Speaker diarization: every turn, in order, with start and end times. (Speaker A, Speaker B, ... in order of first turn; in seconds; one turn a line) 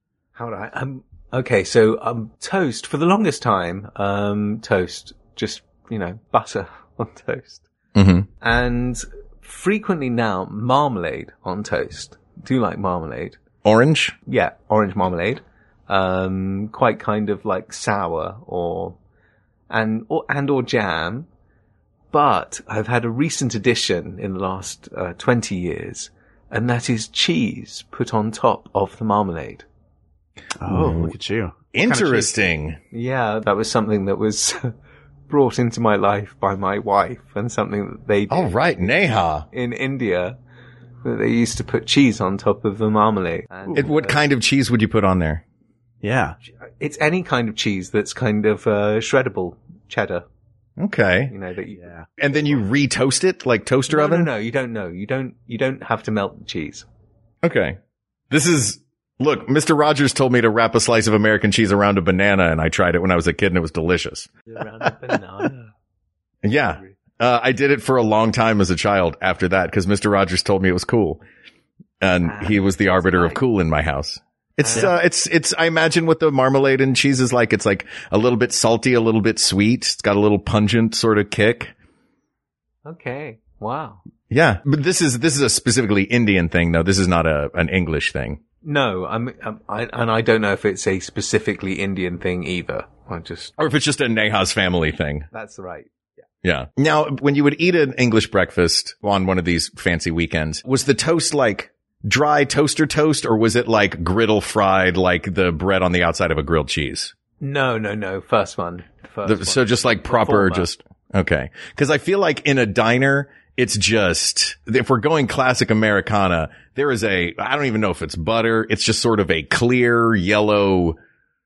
Speaker A: 0.4-7.7
Speaker B: 8.0-8.3
Speaker A: 8.4-13.4
Speaker B: 13.7-14.2
Speaker A: 14.3-19.0
Speaker A: 19.7-21.3
Speaker A: 22.1-29.6
Speaker C: 30.6-32.3
Speaker B: 30.7-31.1
Speaker B: 31.7-32.8
Speaker A: 32.9-34.7
Speaker A: 35.3-39.0
Speaker B: 38.3-39.5
Speaker A: 39.5-40.4
Speaker A: 41.0-44.2
Speaker B: 43.7-45.4
Speaker C: 46.0-46.4
Speaker A: 46.8-50.2
Speaker B: 50.8-51.3
Speaker A: 51.3-51.9
Speaker B: 52.2-54.3
Speaker A: 53.9-56.9
Speaker B: 57.4-57.8
Speaker B: 58.3-64.3
Speaker A: 64.5-65.7
Speaker B: 66.4-71.2
Speaker B: 72.0-81.7
Speaker A: 72.2-73.4
Speaker A: 74.6-74.9
Speaker A: 82.9-84.0
Speaker B: 84.3-88.4
Speaker A: 88.6-93.6
Speaker B: 93.6-95.3
Speaker A: 95.3-95.9
Speaker B: 96.4-107.1
Speaker A: 107.4-110.7
Speaker B: 109.2-121.0